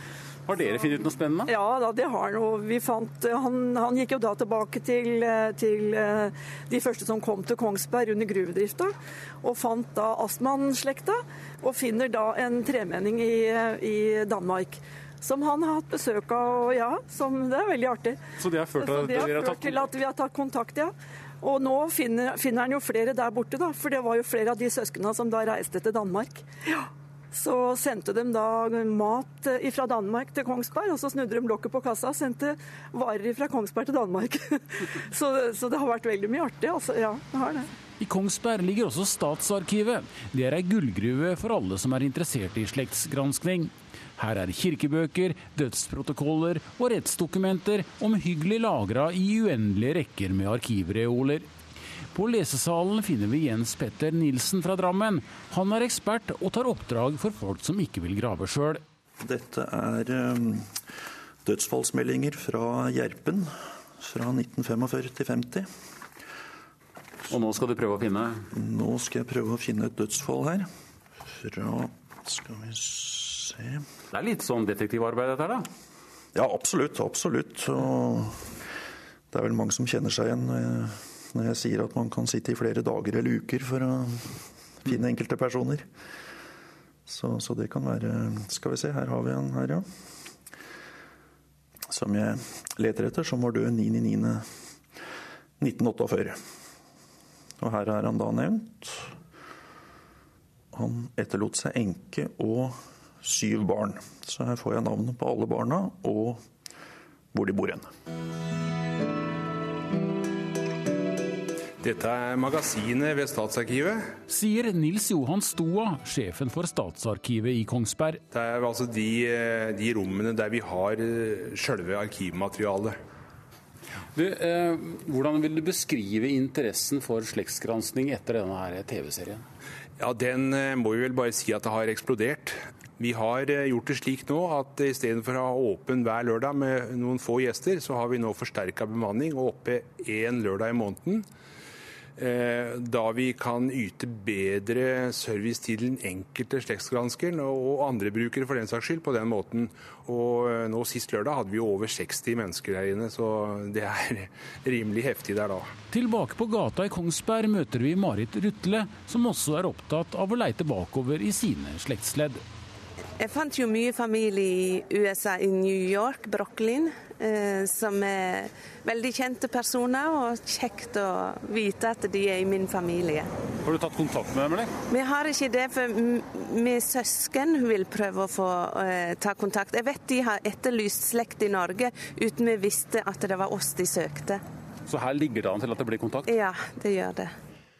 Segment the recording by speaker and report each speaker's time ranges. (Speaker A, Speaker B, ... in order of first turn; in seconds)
Speaker A: 0.5-1.5, 18.4-19.9, 38.0-51.5, 52.1-58.8, 67.3-68.5, 74.1-75.7, 114.3-118.2, 124.1-129.4, 155.9-162.4, 173.6-174.7, 184.9-186.3
Speaker B: 1.4-18.2, 18.7-37.7
Speaker C: 59.2-60.8, 61.4-65.7, 68.5-70.7, 71.3-73.8, 76.3-78.5, 79.3-85.8, 87.1-89.8, 91.9-94.5, 95.6-96.4, 97.6-99.1, 100.7-106.4, 107.3-107.9
Speaker D: 111.8-114.2, 118.3-123.0, 130.0-141.3, 142.2-155.7
Speaker E: 163.2-173.3, 174.9-184.4, 186.2-187.3